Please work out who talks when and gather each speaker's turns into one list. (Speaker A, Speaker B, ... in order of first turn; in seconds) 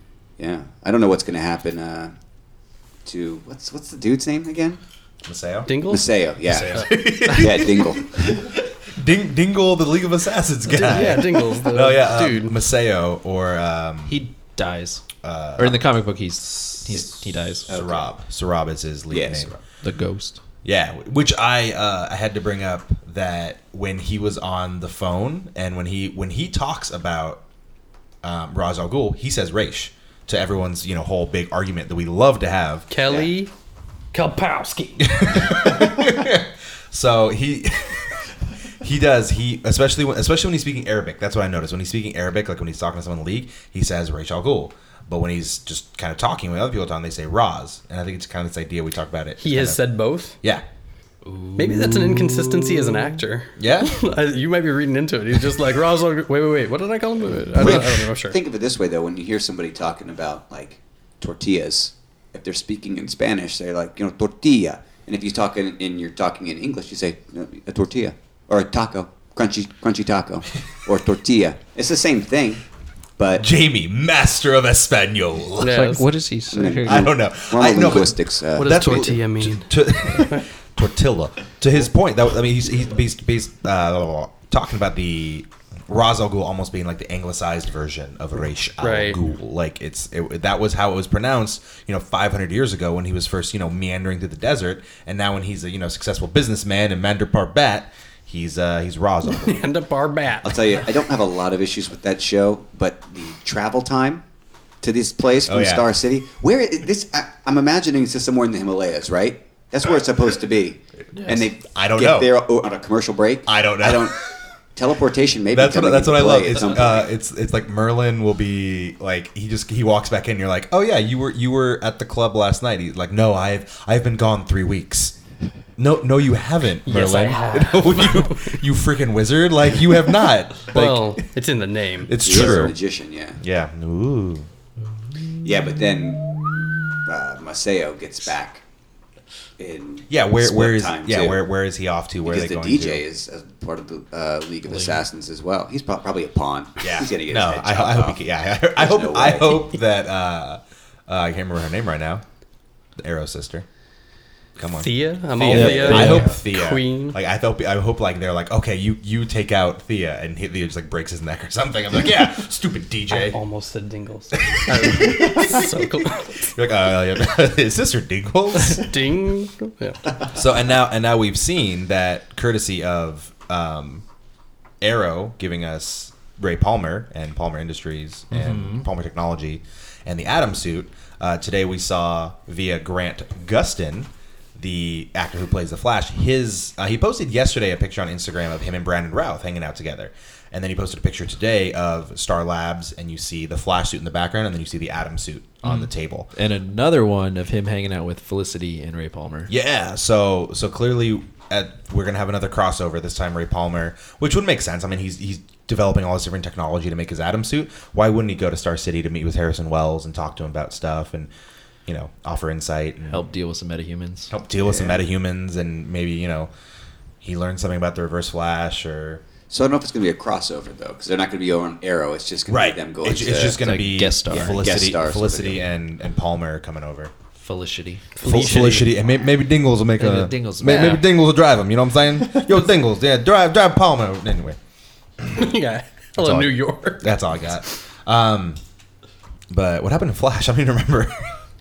Speaker A: 0.4-2.2, 3.0-4.8, 5.9-8.4, 17.7-18.1, 19.1-19.6, 57.6-72.6, 73.2-73.5, 76.5-79.2, 100.4-104.2, 104.8-114.2, 114.8-117.1, 132.2-133.4, 135.4-136.3, 137.1-138.6, 139.6-141.4, 142.2-148.2, 148.8-149.7, 155.6-156.1, 214.6-215.0, 219.5-223.6, 224.3-225.6
Speaker B: 5.2-5.9, 6.6-14.2, 15.2-15.8, 17.7-19.6, 20.6-27.4, 28.2-32.9, 35.0-49.8, 53.6-54.0, 57.5-58.0, 73.4-75.9, 76.9-99.7, 105.5-105.9, 111.6-112.3, 113.5-114.3, 115.5-125.2, 125.8-131.3, 132.1-132.8, 133.4-134.5, 140.1-143.0, 146.8-152.2, 153.0-153.7, 154.6-163.4, 164.3-169.0, 170.3-174.0, 174.8-196.3, 199.5-211.3, 211.9-213.3, 214.3-216.5, 217.2-219.2, 222.5-227.1, 228.2-234.6, 236.2-238.6, 239.5-241.4
Speaker C: 5.7-6.2, 6.7-7.1, 10.7-12.6, 32.9-33.5, 34.1-35.1, 49.4-50.4, 51.6-58.4, 75.6-76.0, 78.6-80.4, 88.8-89.2, 99.3-100.6, 126.8-128.6, 130.7-132.4, 154.8-157.2, 163.1-166.5, 168.7-170.0, 228.2-228.9, 235.3-237.1
Speaker D: 6.5-7.5, 14.1-15.1, 15.6-17.7, 19.8-20.4, 51.2-52.4, 75.7-77.1, 111.2-111.5, 144.7-145.0, 155.5-156.4, 178.3-178.9, 195.6-199.5, 213.1-214.3, 223.6-224.9, 227.4-228.2, 230.0-231.1